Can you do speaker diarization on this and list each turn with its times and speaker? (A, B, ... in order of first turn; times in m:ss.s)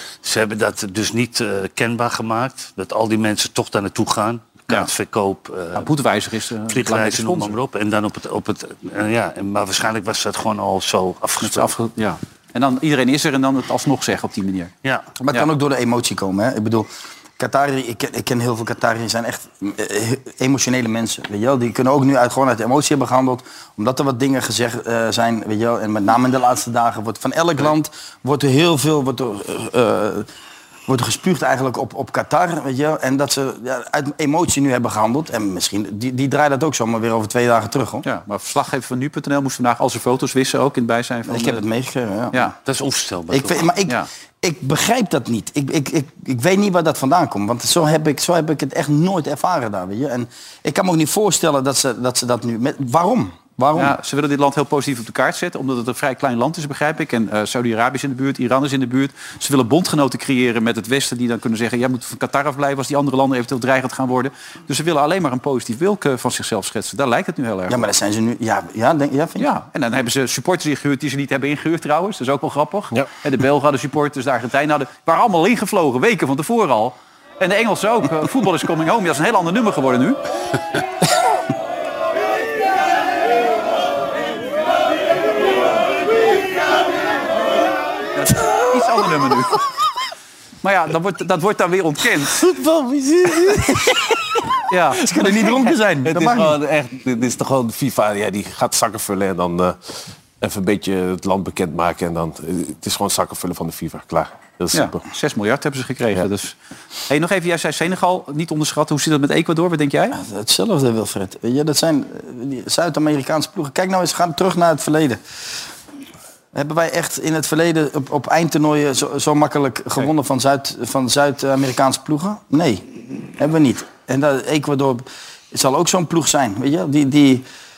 0:00.2-0:05.9 A
0:05.8-0:07.6 B
0:06.7-0:11.7 A
0:11.4-0:14.7 B
0:15.2-0:30.3 C
0:30.9-0:38.1 C
0:38.0-0:41.6 B
0:41.3-0:42.6 C
0:42.7-0:43.7 A
0:43.3-0:54.0 C
0:53.8-1:07.8 B
1:07.7-1:09.5 C
1:09.4-1:20.2 B
1:28.2-1:29.6 B
1:30.6-1:32.4 B
1:32.4-1:33.8 D
1:33.5-1:34.0 C
1:34.7-1:35.3 B
1:34.9-1:36.6 C
1:36.0-1:45.0 D
1:44.7-1:46.6 B
1:47.1-1:50.2 B
1:50.1-1:55.2 C
1:56.5-2:02.9 C
2:03.4-2:07.4 C